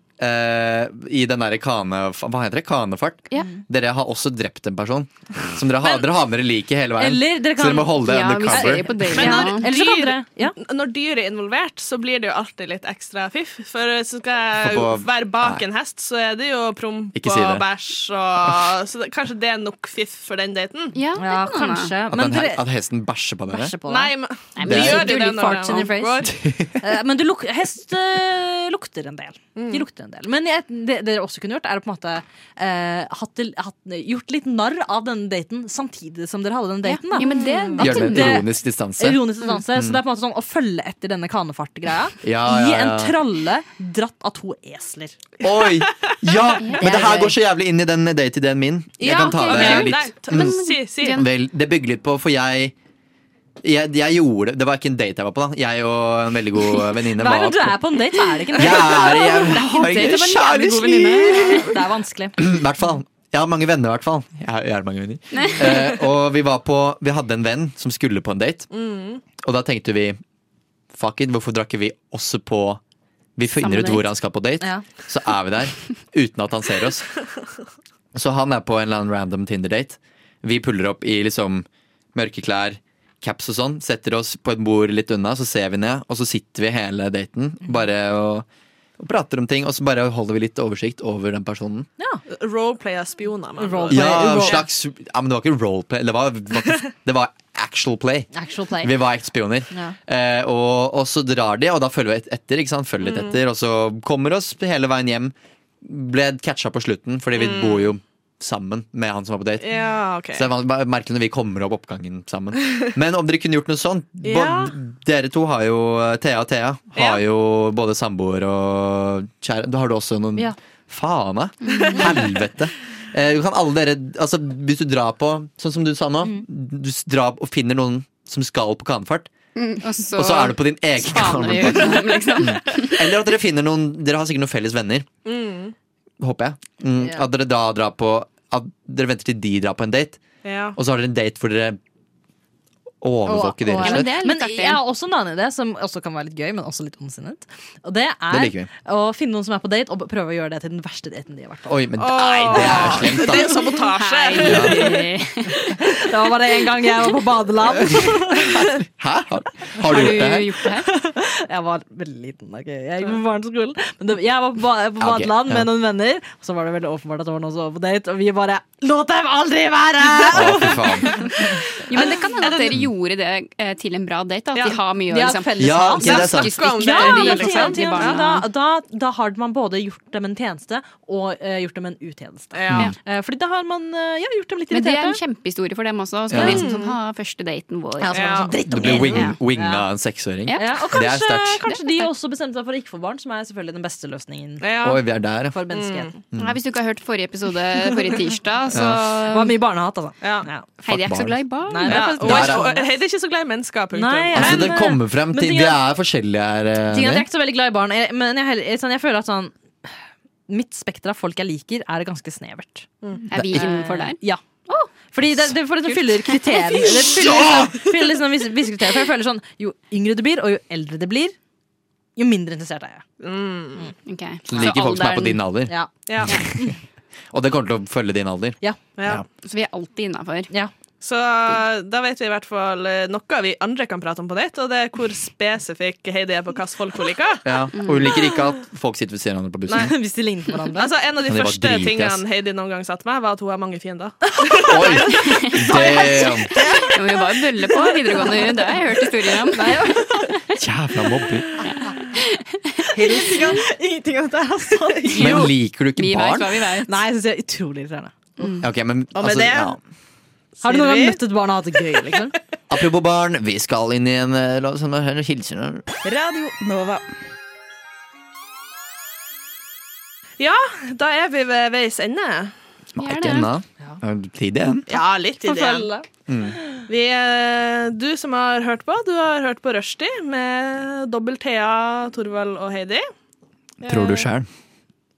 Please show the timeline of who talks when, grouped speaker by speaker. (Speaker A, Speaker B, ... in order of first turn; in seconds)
Speaker A: 0.2-9.3, 14.6-15.6, 17.1-17.6, 22.1-23.8, 24.6-25.1, 26.3-26.9, 37.8-40.0, 42.2-43.2, 45.4-52.8, 53.6-57.8, 58.6-61.7, 62.4-68.7, 69.4-70.2, 70.9-72.8, 73.4-77.1, 78.1-88.5, 89.0-91.9, 93.9-129.3, 130.1-135.1, 136.2-140.2, 140.8-141.8, 143.0-144.2, 148.3-148.7, 151.7-153.7, 154.4-155.0, 158.2-160.6, 165.0-165.7, 170.3-171.3, 175.6-176.6, 186.3-186.6, 188.7-191.7, 194.8-195.6, 196.3-196.6, 198.7-199.1, 200.9-202.7, 204.3-207.3, 213.3-213.7, 224.5-226.6, 227.3-229.3, 237.4-239.9, 241.2-242.2, 244.7-246.5, 250.6-251.5, 255.2-256.7, 258.6-259.8, 262.7-265.8, 272.9-275.0, 276.3-276.6, 283.9-284.5
Speaker B: 7.0-10.6, 21.2-22.6, 23.5-45.2, 46.8-47.3, 57.2-59.6, 61.6-62.5, 93.6-94.7, 98.3-99.0, 99.7-100.0, 137.0-137.3, 143.3-151.8, 155.8-158.7, 160.8-171.3, 175.1-185.2, 188.0-189.9, 190.6-194.6, 195.5-196.2, 199.3-200.7, 201.7-202.9, 203.9-205.8, 206.9-209.9, 210.5-214.4, 215.0-221.3, 222.2-223.0, 226.5-226.8, 239.7-240.9, 249.5-250.3, 252.9-255.3, 256.9-258.1, 260.6-262.3, 266.1-267.0, 275.4-276.1
Speaker C: 8.0-9.7, 20.9-21.9, 24.6-25.9, 36.8-38.4, 49.0-51.3, 58.9-61.7, 65.3-66.0, 73.6-74.1, 121.7-122.1, 129.6-133.1, 143.8-144.8, 152.5-152.8, 153.7-155.8, 159.8-160.9, 171.3-178.4, 184.7-189.4, 190.5-191.1, 191.7-192.1, 196.4-199.6, 200.8-202.1, 213.3-214.9, 216.7-216.9, 224.1-225.4, 229.4-230.5, 237.7-238.2, 245.2-250.0, 251.6-252.8, 255.2-256.9, 258.4-258.7, 273.0-273.5
Speaker D: 9.1-21.0, 23.9-26.3, 29.6-29.8, 45.8-46.2, 49.0-51.2, 68.7-69.2, 92.3-94.6, 103.0-103.4, 107.4-107.9, 109.6-110.5, 114.2-114.7, 117.0-117.2, 121.8-122.1, 135.2-135.8, 140.4-140.8, 152.0-155.1, 172.4-172.8, 174.5-174.8, 176.0-178.4, 182.5-182.9, 186.3-187.0, 188.1-188.6, 194.6-195.0, 195.7-196.1, 200.2-200.5, 201.9-204.8, 216.9-217.9, 223.2-223.9, 226.1-226.4, 229.0-229.2, 231.0-238.4, 240.8-248.9, 249.6-250.1, 253.0-253.7, 254.7-255.5, 259.1-259.8, 260.6-261.2, 270.4-272.5, 274.9-275.9, 276.9-283.1, 283.8-284.3